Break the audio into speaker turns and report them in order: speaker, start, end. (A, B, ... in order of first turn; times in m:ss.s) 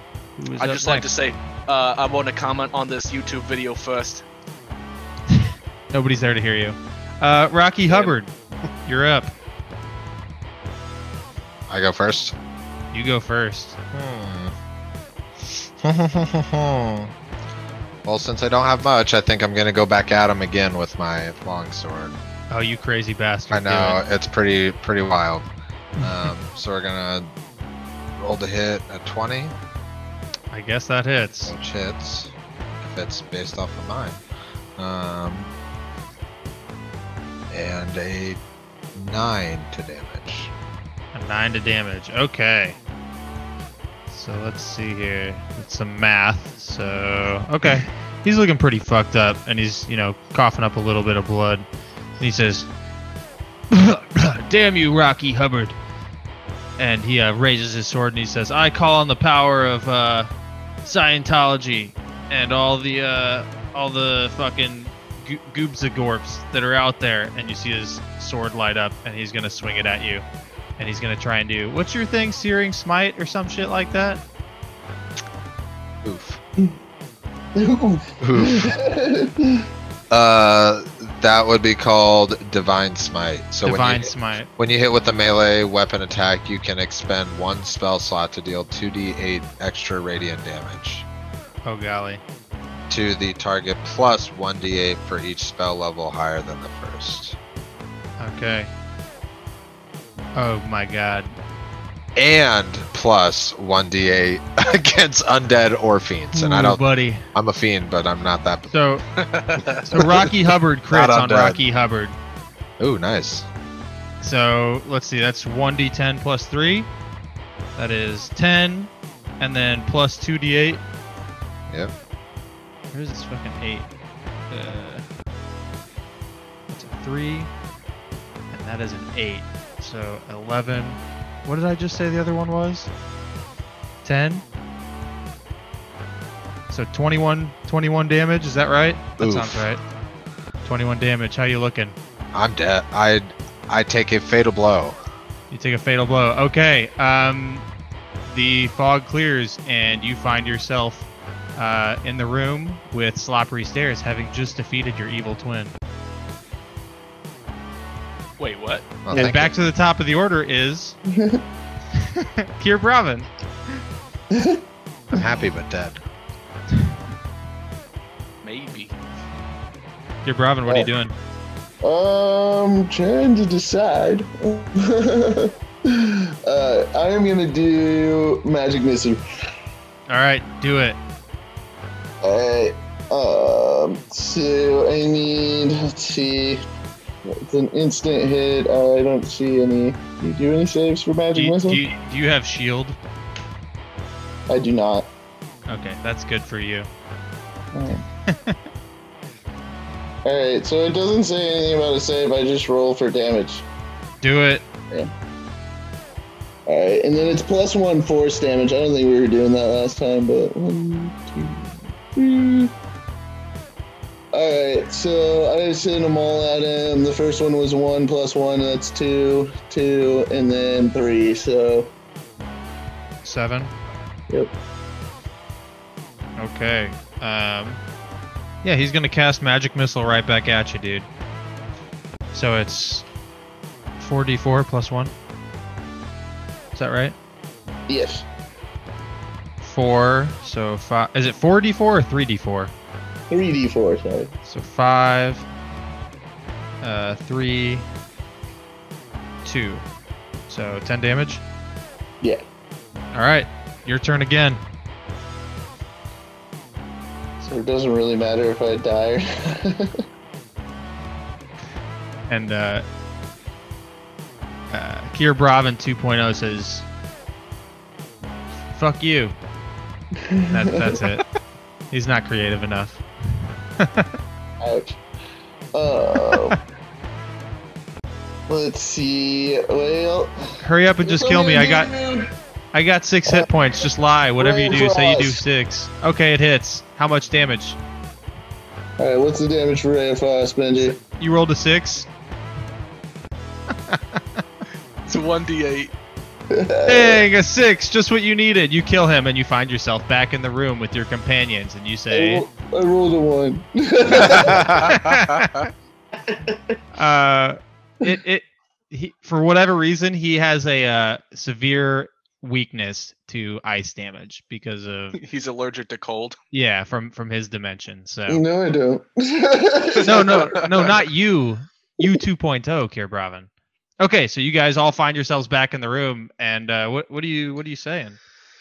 0:00.4-0:01.1 A
0:00.6-0:04.2 B
0:05.3-0:08.3 A
0:07.9-0:08.1 B
0:08.8-0:09.3 A
0:11.7-0:12.4 C
0:12.9-0:13.8 A
0:13.9-0:14.5 C
0:15.8-0:17.1 C
0:18.0-0:22.3 C
0:22.5-0:24.0 A
0:23.5-0:25.5 C
0:26.0-0:26.3 A
0:26.0-0:27.3 C
0:28.2-0:29.5 C
0:30.5-0:31.5 A
0:31.4-0:34.2 C
0:34.8-0:35.5 C
0:37.5-0:38.4 C
0:38.9-0:40.5 C
0:41.1-0:42.8 A
0:44.1-0:51.6 A
0:52.2-0:52.7 A
0:53.7-0:55.8 A
0:56.8-1:00.3 A
1:00.8-1:10.2 A
1:10.8-1:14.2 A
1:16.0-1:16.4 C
1:17.6-1:19.7 D
1:18.2-1:18.7 C
1:20.1-1:31.0 C
1:23.6-1:24.5 A
1:31.6-1:32.2 A
1:32.9-1:37.4 C
1:38.2-1:38.7 A
1:40.3-1:41.3 A
1:42.2-1:46.8 C
1:46.3-1:47.2 A
1:47.3-1:48.7 C
1:48.7-1:49.0 A
1:49.2-1:49.9 B
1:49.9-1:52.2 A
1:49.9-1:50.3 C
1:50.9-1:51.6 C
1:52.8-1:53.5 C
1:54.2-1:56.9 A
1:57.8-2:00.8 A
2:02.9-2:03.9 A
2:04.5-2:05.0 A
2:06.7-2:07.5 A
2:08.5-2:12.9 A
2:14.0-2:14.4 A
2:16.7-2:19.8 A
2:19.2-2:19.7 C
2:20.6-2:22.0 A
2:22.3-2:25.0 C
2:25.5-2:27.6 A
2:28.2-2:35.7 A
2:38.4-2:39.0 B
2:39.0-2:39.5 C
2:39.1-2:41.0 A
2:41.1-2:41.4 D
2:42.1-2:43.3 A
2:44.3-2:44.6 D
2:45.1-2:46.0 C
2:48.4-2:49.0 B
2:50.2-2:51.1 A
2:51.8-2:59.2 D
3:00.1-3:01.0 A
3:02.2-3:06.6 D
3:07.2-3:11.8 D
3:11.3-3:13.0 A
3:14.5-3:15.1 D
3:15.7-3:16.9 A
3:17.7-3:18.0 D
3:18.3-3:18.6 A
3:20.2-3:23.6 D
3:24.2-3:24.6 A
3:26.7-3:32.7 D
3:34.3-3:41.9 D
3:43.2-3:43.7 A
3:46.4-3:47.8 A
3:48.6-3:51.1 A
3:52.3-3:53.0 A
3:54.0-3:55.1 A
3:56.7-3:57.2 A
3:57.9-3:58.2 D
3:59.6-4:02.7 A
4:03.3-4:04.3 D
4:04.4-4:05.5 A
4:06.8-4:07.8 A
4:09.4-4:09.8 A
4:10.5-4:11.4 A
4:13.1-4:14.6 A
4:17.4-4:20.0 D
4:22.3-4:22.8 A
4:24.7-4:26.8 A
4:28.7-4:29.3 A
4:30.2-4:31.0 D
4:30.5-4:31.2 A
4:31.9-4:33.0 A
4:33.8-4:34.1 A
4:34.6-4:35.0 D
4:35.7-4:36.6 D
4:38.5-4:42.3 D
4:40.6-4:41.9 A
4:42.7-4:47.8 A
4:43.3-4:43.5 D
4:44.4-4:45.4 D
4:49.0-4:51.0 D
4:51.2-4:52.1 A
4:53.9-4:54.4 A
4:55.0-4:55.9 B
4:56.5-4:57.2 D
4:56.8-5:02.4 A
5:02.1-5:04.8 D
5:04.2-5:04.8 C
5:04.7-5:05.6 B
5:04.8-5:05.6 A
5:06.3-5:06.8 D
5:06.9-5:15.2 A
5:15.2-5:16.4 B
5:16.5-5:18.4 A
5:18.3-5:20.9 D
5:20.0-5:20.9 B
5:20.0-5:23.5 A
5:24.0-5:28.2 A